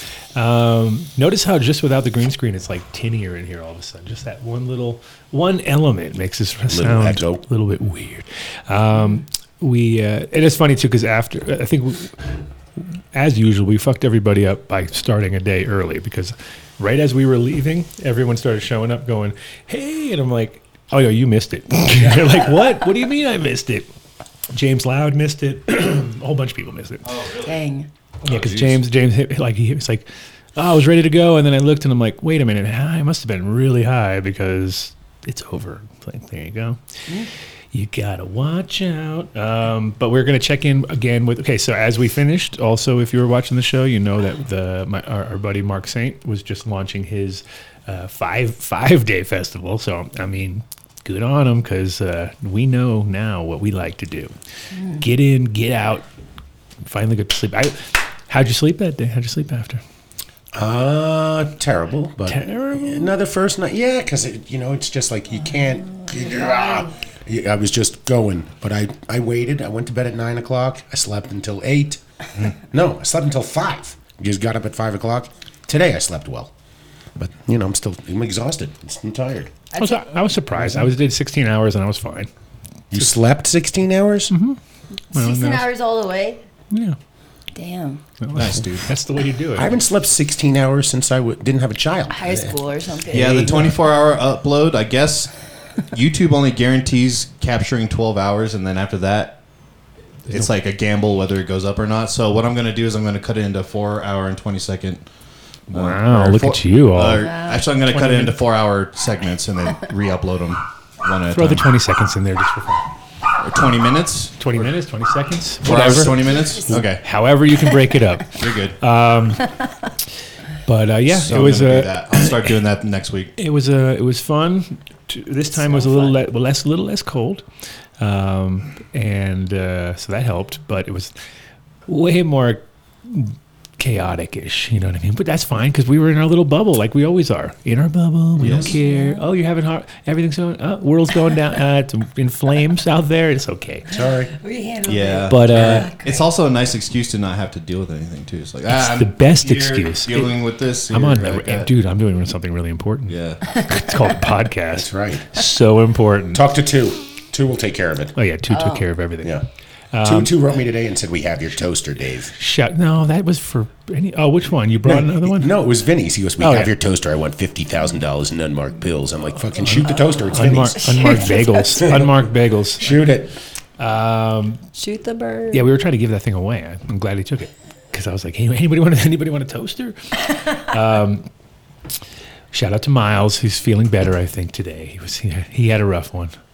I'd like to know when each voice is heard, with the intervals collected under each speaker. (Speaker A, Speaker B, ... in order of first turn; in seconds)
Speaker A: 0.3-12.2, 12.8-23.9, 24.5-27.1, 28.2-36.8, 37.7-54.3, 54.9-56.1, 56.8-59.8, 62.3-63.1, 79.8-82.3, 84.3-84.6, 85.1-85.7, 86.7-87.0, 88.2-89.8, 105.7-107.3, 107.9-108.4, 111.3-112.9, 114.4-119.5, 120.7-122.3, 123.4-127.4, 128.0-131.1, 131.9-143.9, 145.3-145.9, 148.7-156.5, 158.2-159.4, 159.9-160.3, 162.3-165.5, 166.4-166.7, 169.6-173.0, 173.8-174.6, 175.5-181.3, 182.5-186.3
Speaker B: 6.7-7.4, 60.5-72.0, 72.7-76.5, 77.2-79.5, 80.5-80.9, 82.9-84.3, 89.5-92.5, 93.2-93.8, 143.9-144.3, 154.8-155.3, 156.3-158.2, 160.0-162.3, 164.8-171.3, 171.8-173.3
Speaker C: 27.0-27.6, 28.2-28.9, 93.1-95.3, 95.9-99.4, 100.3-105.1, 105.7-111.7, 113.4-114.7, 115.6-117.0, 118.3-118.8, 121.1-123.3, 138.4-138.7, 144.8-151.7, 153.1-153.4
Speaker D: 27.4-27.9, 66.0-66.9, 79.7-80.3, 85.1-86.4, 87.5-88.0, 92.1-93.6, 107.1-107.7, 116.3-116.7, 125.5-126.2, 138.8-139.3, 143.9-146.2, 158.5-158.8, 170.8-171.9, 174.8-175.7